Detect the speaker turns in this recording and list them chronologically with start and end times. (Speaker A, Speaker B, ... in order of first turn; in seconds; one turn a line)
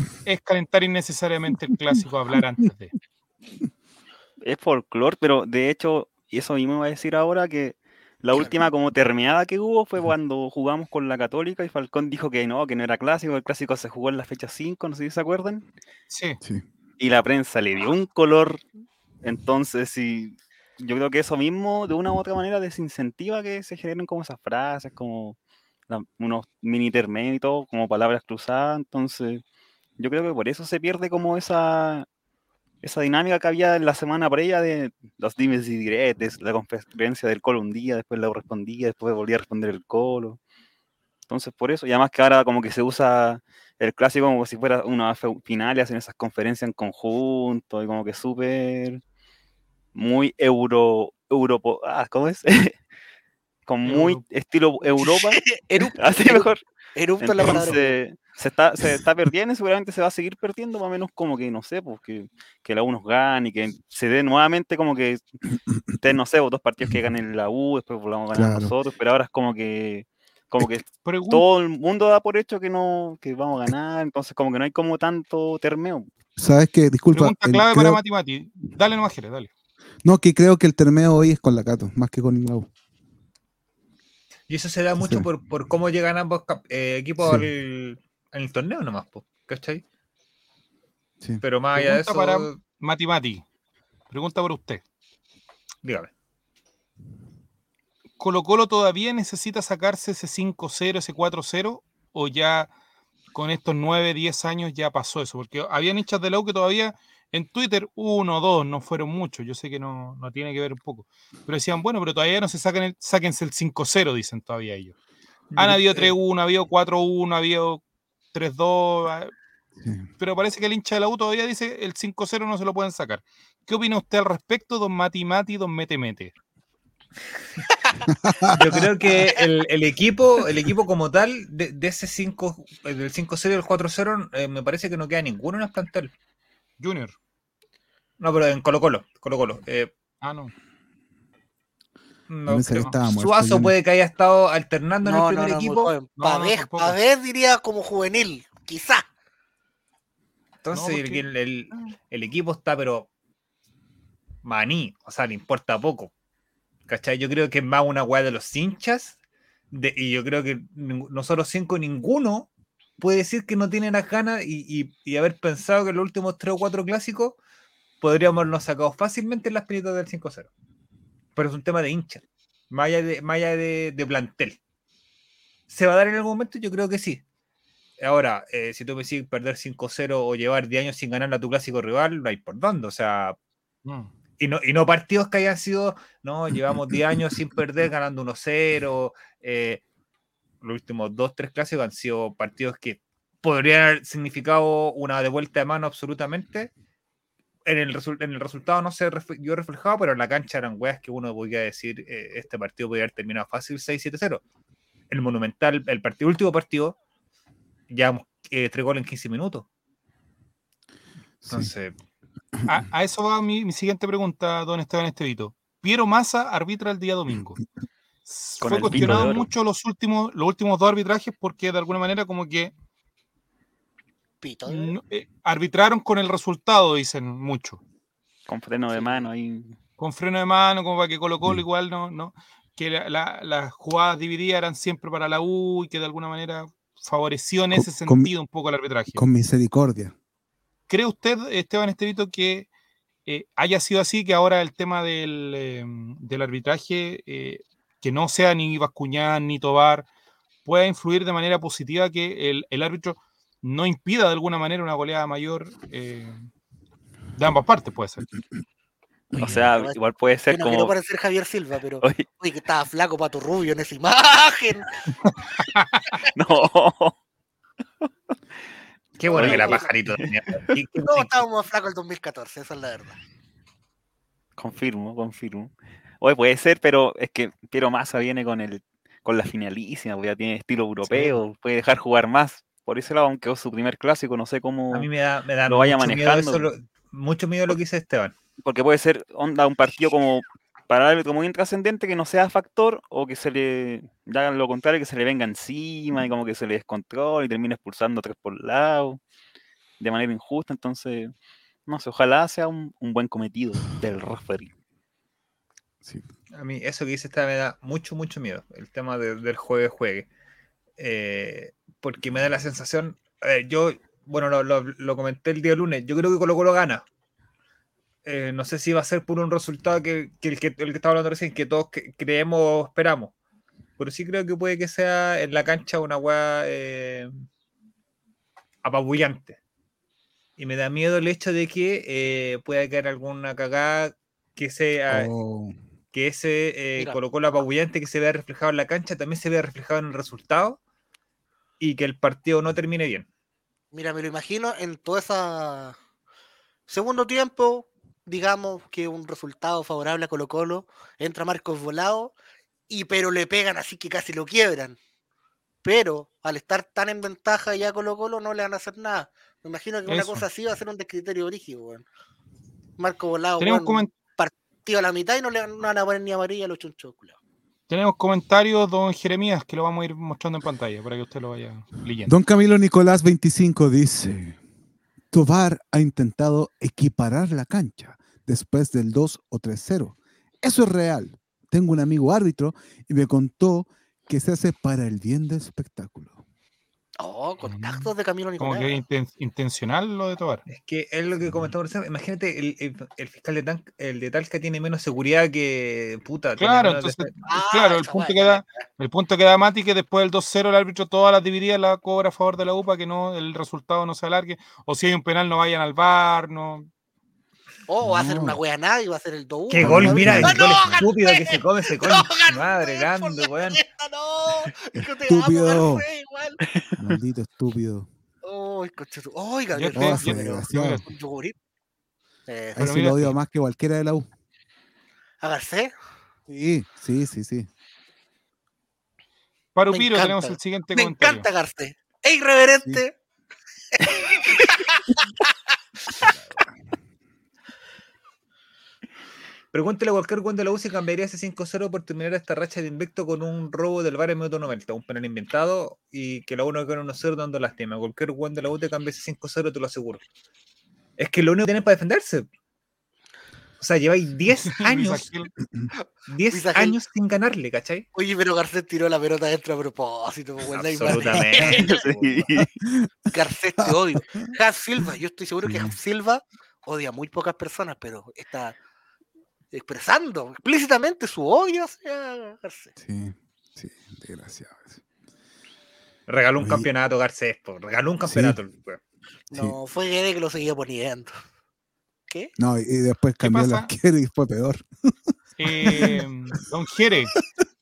Speaker A: 0.2-3.0
Speaker B: 4.4-15.7
Speaker C: 8.3-8.6
Speaker A: 16.1-16.4
Speaker B: 17.0-18.6
Speaker B: 19.2-25.4
Speaker B: 25.9-29.4
Speaker B: 30.0-32.1
Speaker B: 32.8-40.4
Speaker B: 41.3-49.0
Speaker B: 49.9-52.8
Speaker B: 53.7-56.6
Speaker A: 53.8-54.2
Speaker C: 55.0-58.0
Speaker B: 57.2-65.2
Speaker B: 66.0-76.1
Speaker D: 68.3-68.7
Speaker A: 71.0-71.5
Speaker D: 76.4-78.0
Speaker A: 77.1-79.5
Speaker D: 80.0-82.7
Speaker E: 84.5-89.8
Speaker D: 85.0-85.3
Speaker D: 87.2-87.5
Speaker E: 91.4-92.6
Speaker A: 91.8-93.4
Speaker A: 94.1-94.8
Speaker E: 95.8-96.1
Speaker A: 98.2-102.7
Speaker A: 103.3-114.9
Speaker E: 115.5-116.2
Speaker A: 115.6-117.8
Speaker A: 118.3-119.3
Speaker D: 119.8-120.1
Speaker A: 120.2-126.3
Speaker D: 128.1-128.9
Speaker E: 128.6-136.1
Speaker A: 136.8-137.2
Speaker E: 138.2-139.9
Speaker A: 140.2-140.5
Speaker E: 142.3-146.0
Speaker D: 142.5-143.7
Speaker C: 145.0-149.1
Speaker A: 146.2-147.0
Speaker E: 150.6-153.1
Speaker A: 150.7-151.3
Speaker E: 154.4-156.1
Speaker E: 156.9-159.2
Speaker E: 159.7-167.4
Speaker E: 168.0-170.5
Speaker E: 171.4-174.6
Speaker E: 175.7-177.2
Speaker E: 178.0-183.4
Speaker A: 183.8-184.1
Speaker E: 184.4-189.8
Speaker E: 190.6-196.7
Speaker E: 197.7-204.4
Speaker E: 205.1-207.0
Speaker E: 207.9-209.7
Speaker D: 211.4-211.7
Speaker E: 211.5-211.9
Speaker A: 212.7-217.6
Speaker A: 218.3-222.7
Speaker B: 218.6-219.5
Speaker D: 218.9-219.4
Speaker C: 224.4-225.0
Speaker A: 224.7-227.8
Speaker B: 228.5-229.8
Speaker C: 228.9-229.2
Speaker A: 230.0-239.2
Speaker D: 237.7-238.3
Speaker D: 239.1-240.1
Speaker A: 240.9-242.7
Speaker A: 243.3-250.1
Speaker A: 250.7-256.4
Speaker A: 257.4-258.2
Speaker B: 259.4-260.9
Speaker C: 259.7-264.9
Speaker A: 265.7-266.1
Speaker B: 266.3-267.2
Speaker E: 269.2-271.4
Speaker B: 269.3-270.2
Speaker C: 269.3-269.9
Speaker C: 271.0-273.2
Speaker B: 274.6-285.1
Speaker A: 281.1-281.4
Speaker E: 284.9-288.3
Speaker B: 285.7-286.7
Speaker B: 288.6-299.2
Speaker B: 300.0-301.3
Speaker B: 301.9-304.7
Speaker D: 306.0-306.3
Speaker E: 306.6-310.3
Speaker E: 311.0-317.1
Speaker E: 318.2-323.3
Speaker E: 324.0-327.4
Speaker E: 328.8-329.6
Speaker E: 330.6-335.3
Speaker D: 335.1-335.8
Speaker E: 336.1-340.8
Speaker E: 341.8-343.3
Speaker C: 343.9-346.0
Speaker C: 346.9-352.3
Speaker C: 352.9-355.0
Speaker C: 355.8-362.1
Speaker A: 360.1-360.5
Speaker C: 363.0-367.4
Speaker A: 363.6-364.1
Speaker A: 367.9-372.3
Speaker D: 372.3-374.6
Speaker D: 375.3-386.4
Speaker C: 387.2-389.0
Speaker A: 387.6-390.6
Speaker E: 390.7-397.4
Speaker A: 396.6-406.9
Speaker C: 397.5-398.8
Speaker C: 407.9-416.6
Speaker D: 408.0-408.6
Speaker E: 409.7-413.8
Speaker D: 409.8-411.0
Speaker D: 414.9-416.1
Speaker D: 417.0-418.1
Speaker C: 418.4-421.6
Speaker A: 419.7-421.1
Speaker D: 419.9-421.1
Speaker C: 422.5-423.0
Speaker D: 422.8-424.3
Speaker A: 422.8-423.3
Speaker C: 425.4-425.9
Speaker D: 426.5-427.7
Speaker A: 429.8-431.5
Speaker C: 429.9-433.1
Speaker C: 434.0-435.0
Speaker D: 436.2-436.8
Speaker E: 439.7-450.2
Speaker E: 451.2-452.5
Speaker E: 453.8-455.3
Speaker A: 454.7-455.5
Speaker E: 456.3-458.1
Speaker C: 456.5-456.9
Speaker C: 458.1-462.0
Speaker E: 460.7-462.5
Speaker B: 461.8-462.7
Speaker D: 462.6-463.1
Speaker C: 463.3-468.8
Speaker D: 463.8-464.5
Speaker D: 465.6-466.0
Speaker C: 469.7-472.9
Speaker D: 473.0-475.0
Speaker E: 476.3-479.0
Speaker D: 476.6-476.9
Speaker D: 478.2-478.6
Speaker C: 479.5-481.4
Speaker D: 482.6-485.1
Speaker A: 483.4-483.9
Speaker A: 485.6-487.4
Speaker D: 485.7-486.2